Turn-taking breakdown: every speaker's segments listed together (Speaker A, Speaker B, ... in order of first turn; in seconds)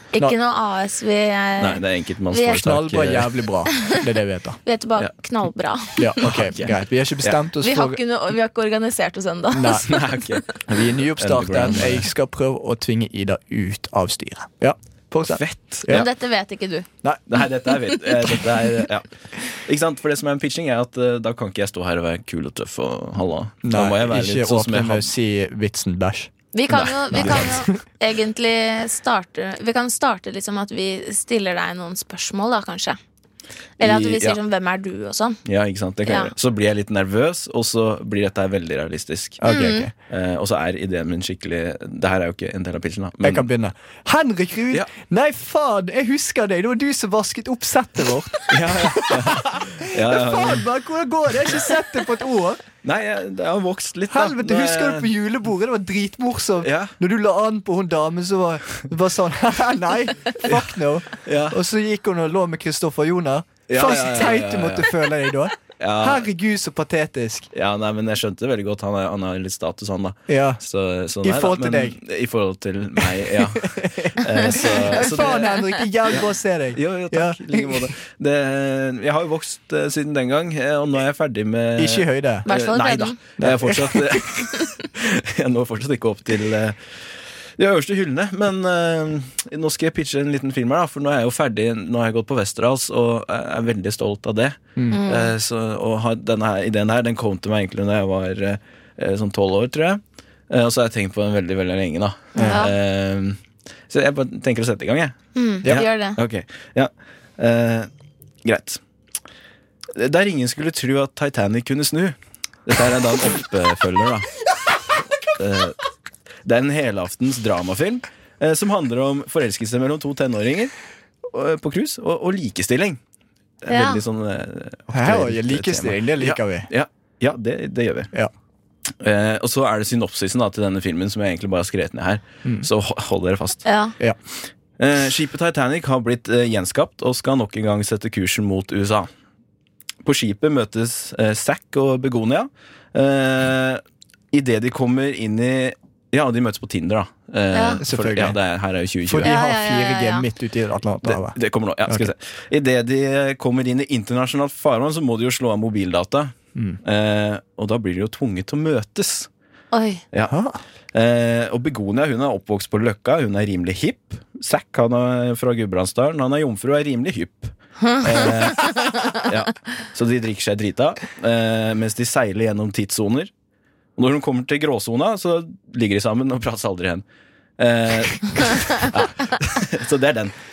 Speaker A: 0.1-2.6, 4.6-6.2, 7.6-10.0, 15.9-16.9, 26.5-33.0, 33.8-35.4, 36.0-36.3, 39.5-39.9, 82.5-83.2, 94.9-95.3, 102.4-102.7, 105.3-106.2, 123.7-124.0, 133.7-133.9, 147.5-147.8, 149.2-150.2, 159.7-160.0
Speaker B: 1.6-3.3, 6.2-7.3, 9.9-12.1, 15.3-16.1, 17.3-25.1, 26.7-27.6, 33.8-34.4, 35.4-39.4, 40.1-43.5, 48.5-50.6, 52.8-55.1, 56.6-56.9, 60.4-60.7, 61.2-61.6, 63.7-64.9, 65.8-66.3, 67.5-75.6, 76.1-87.0, 87.6-103.4, 103.9-107.9, 108.4-108.8, 109.9-112.1, 112.7-114.3, 115.4-115.8, 116.4-120.7, 121.3-123.0, 123.6-128.1, 129.0-133.6, 134.8-139.1, 140.0-149.3, 151.0-159.3, 160.9-173.3, 174.0-177.0, 177.6-180.3
Speaker C: 2.5-4.6, 6.0-8.0, 9.5-9.9, 10.7-16.1, 23.6-26.3, 27.1-27.7, 39.4-39.9, 43.2-52.6, 54.1-67.5, 70.3-70.6, 71.2-72.0, 73.0-77.9, 81.8-82.5, 83.4-84.2, 102.4-102.6, 124.9-126.7, 147.8-148.4, 149.0-151.3, 151.9-152.1, 160.3-160.6